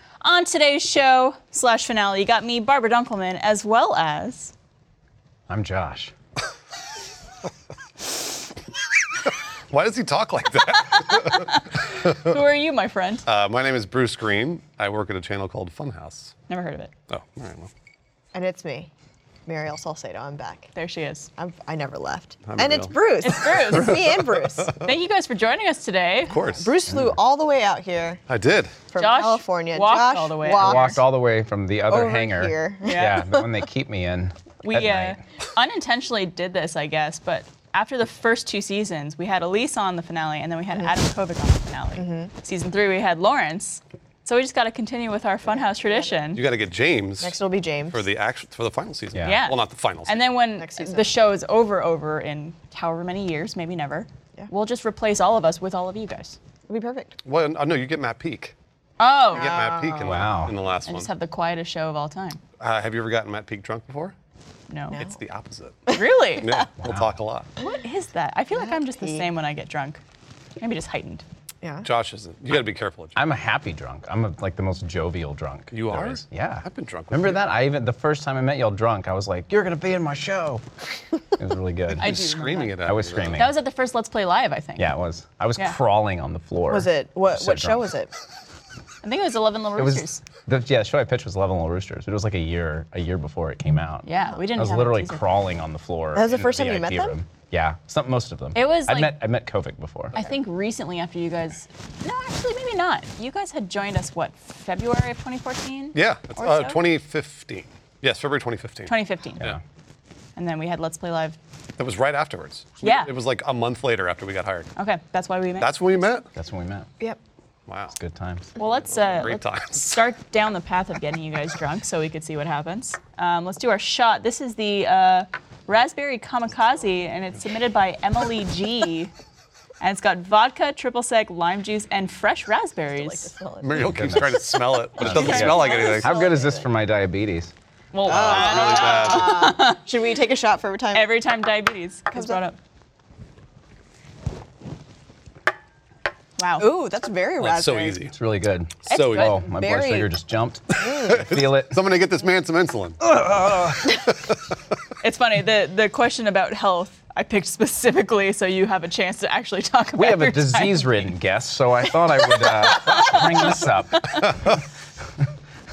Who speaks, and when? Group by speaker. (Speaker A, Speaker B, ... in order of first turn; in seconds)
Speaker A: 0.2-4.5, 11.1-13.3, 16.5-16.9, 20.8-21.3, 23.2-24.2, 24.8-26.4, 29.0-31.0, 32.8-33.2, 34.6-46.4, 49.2-56.4, 59.0-59.6, 60.9-62.4, 64.7-65.0, 65.9-66.5, 67.6-70.0, 70.6-71.2, 82.0-82.8, 83.4-84.9, 89.0-90.2, 94.0-95.2, 98.5-99.1, 100.1-106.8, 108.9-109.5, 110.4-111.4, 112.8-113.1, 114.8-115.7, 118.6-129.1, 129.8-133.3, 135.1-136.5, 137.9-139.8, 140.9-142.6, 146.4-146.7, 148.9-149.5, 155.0-161.1, 162.4-164.3
Speaker B: 5.5-6.1, 30.4-35.2, 49.1-49.4, 60.0-60.5, 66.8-67.1, 73.2-80.6, 81.4-82.2, 82.8-83.5, 84.8-87.9, 89.8-100.2, 116.3-116.9, 117.9-118.5, 133.8-134.5, 135.0-137.5, 148.1-151.8, 153.0-153.9, 160.0-164.6
Speaker C: 9.7-12.3, 13.2-16.3, 17.1-17.7, 22.4-22.9, 26.3-26.7, 28.3-28.8, 46.3-47.4, 47.9-50.2, 57.2-58.5, 59.3-61.1, 62.6-64.1, 64.9-67.5, 71.8-73.2, 75.7-77.5, 82.0-83.5, 105.9-109.6, 111.8-114.7, 115.6-116.2, 117.7-117.9, 118.9-120.0, 133.6-136.2, 138.1-139.6, 147.4-148.2, 148.9-149.4, 151.0-153.1, 154.1-154.3
Speaker D: 18.3-18.9, 19.5-20.7, 21.4-24.9, 26.3-28.2, 28.9-31.0, 31.9-33.5, 42.0-42.3, 45.9-46.1, 47.2-48.0, 50.6-51.1, 56.7-57.2, 59.3-60.3, 65.9-66.7, 68.5-69.3, 71.6-71.9, 86.7-88.1, 96.1-97.2, 133.0-134.4, 135.0-136.5, 138.0-141.1, 142.1-142.4, 146.6-148.0, 149.4-150.1, 150.8-151.3